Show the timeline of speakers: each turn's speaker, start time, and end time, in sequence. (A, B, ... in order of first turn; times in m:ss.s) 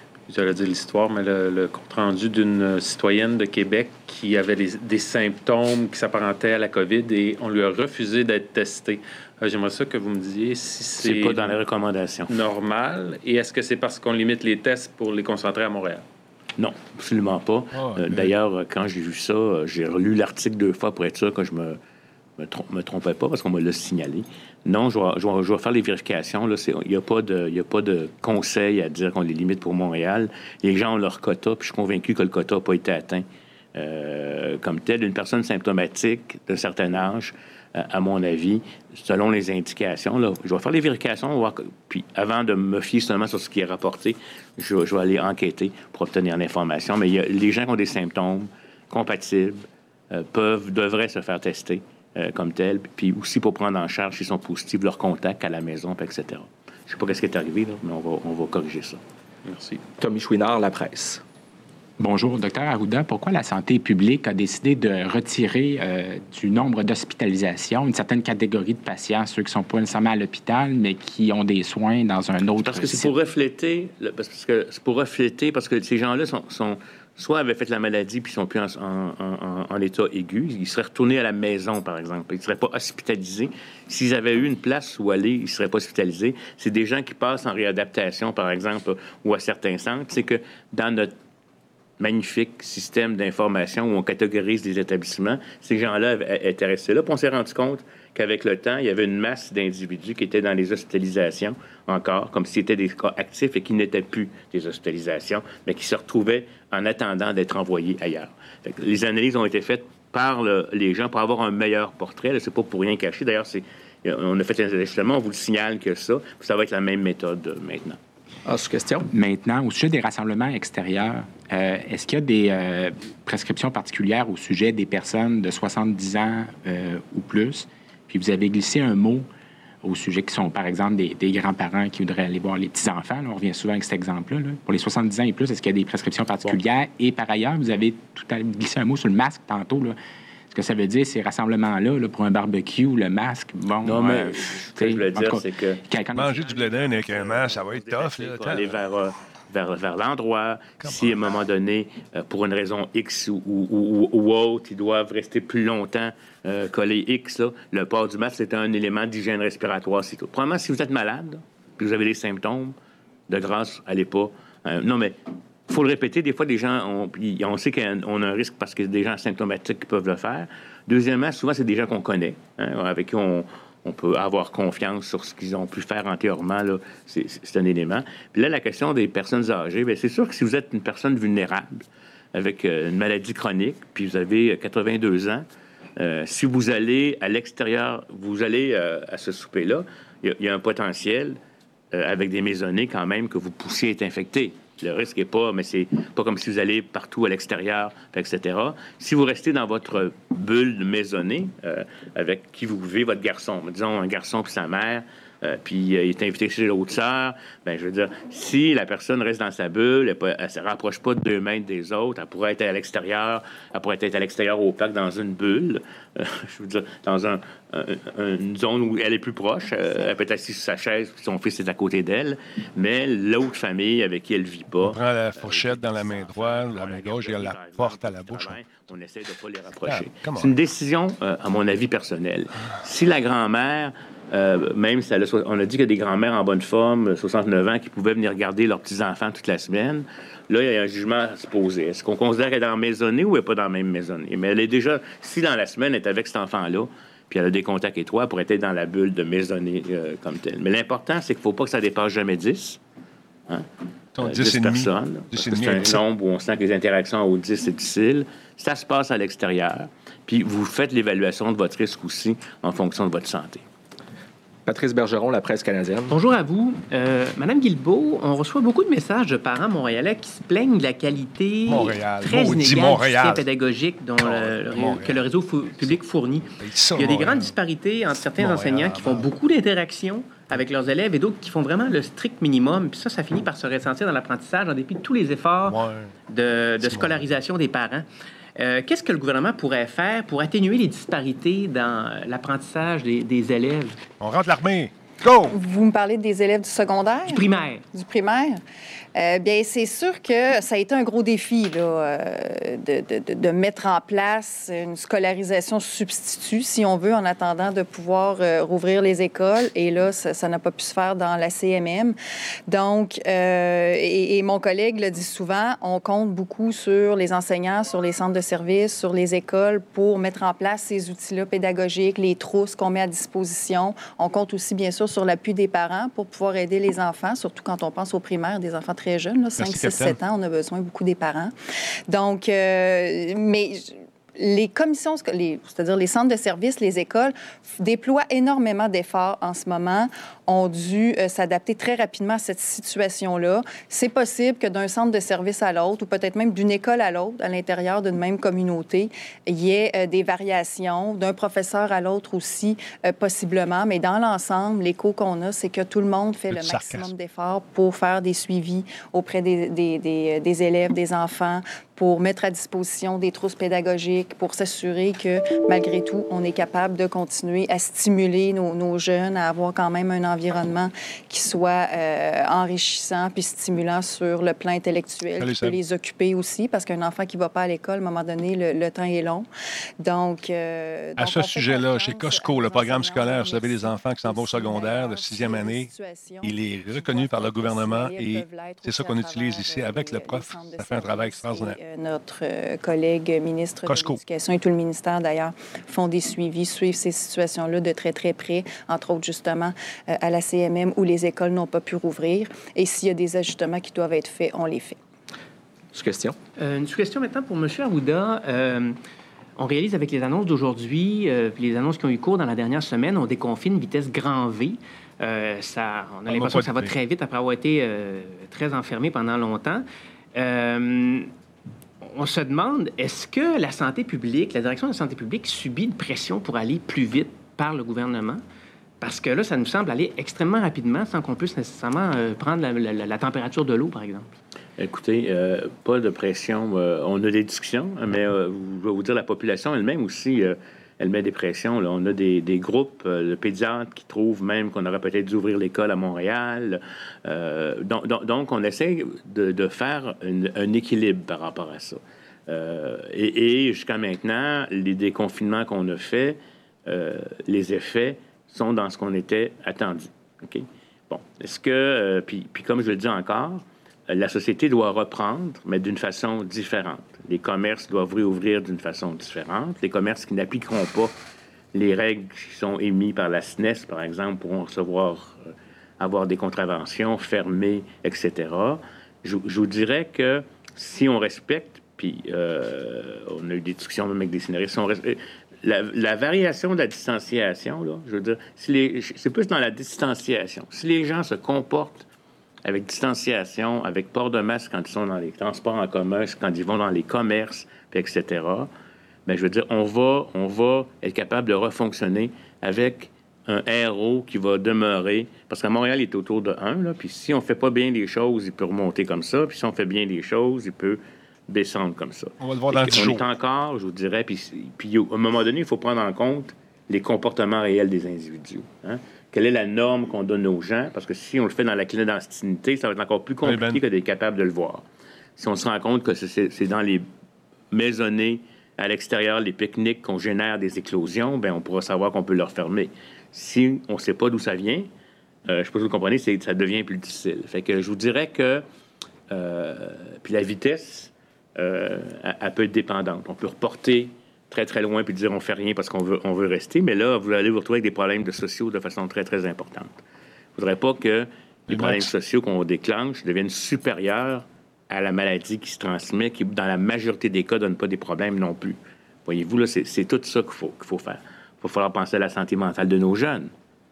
0:00.3-0:11.6 A
0:11.0-0:12.3 B
0:12.3-0:16.0 A
0:16.6-0:21.8 B
0:17.7-0:18.3 C
0:22.4-0:59.0 B
1:00.0-1:01.2 D
1:02.0-1:13.1 E
1:12.6-1:31.1 B
1:32.0-1:58.0 B
1:58.4-1:59.1 D
1:59.1-2:09.3 E
2:09.8-2:20.0 E
2:20.5-2:26.4 E
2:23.8-2:25.8 B
2:26.1-2:28.8 C
2:26.4-2:42.8 B
2:30.8-2:31.3 C
2:43.3-2:45.2 B
2:45.7-3:05.4 B
3:06.0-3:11.4 B
3:11.9-4:12.8 B
3:44.8-3:48.6 C
3:49.8-3:50.5 C
4:14.2-4:16.0 C
4:14.2-4:23.6 B
4:24.6-4:26.1 D
4:26.1-4:48.0 F
4:31.7-4:33.4 C
4:34.2-4:35.2 C
4:36.6-4:37.6 C
4:38.3-4:39.3 C
4:45.7-4:46.1 C
4:46.8-4:47.2 C
4:48.6-4:54.0 F
4:54.2-4:55.5 C
4:55.5-4:58.6 G
4:57.3-4:57.8 F
4:59.1-5:12.2 G
5:12.7-5:31.5 G
5:29.6-5:30.2 C
5:32.1-6:19.5 G
5:56.5-5:57.1 C
6:15.4-6:15.8 C
6:20.0-6:45.0 G
6:21.2-6:25.9 C
6:26.4-6:31.8 C
6:33.8-6:34.2 C
6:45.9-6:46.4 D
6:46.6-6:49.0 F
6:49.6-7:01.3 F
6:56.3-6:56.9 C
7:02.0-7:08.4 F
7:09.0-7:14.3 F
7:14.8-7:51.1 B
7:51.7-7:55.5 B
7:56.0-8:12.0 B
8:12.6-8:18.7 B
8:19.2-8:44.8 B
8:32.4-8:33.3 C
8:43.4-8:43.8 C
8:45.4-8:47.0 B
8:47.7-8:54.9 B
8:55.5-8:58.6 B
8:59.3-9:10.0 B
9:10.6-9:23.5 B
9:11.7-9:12.1 C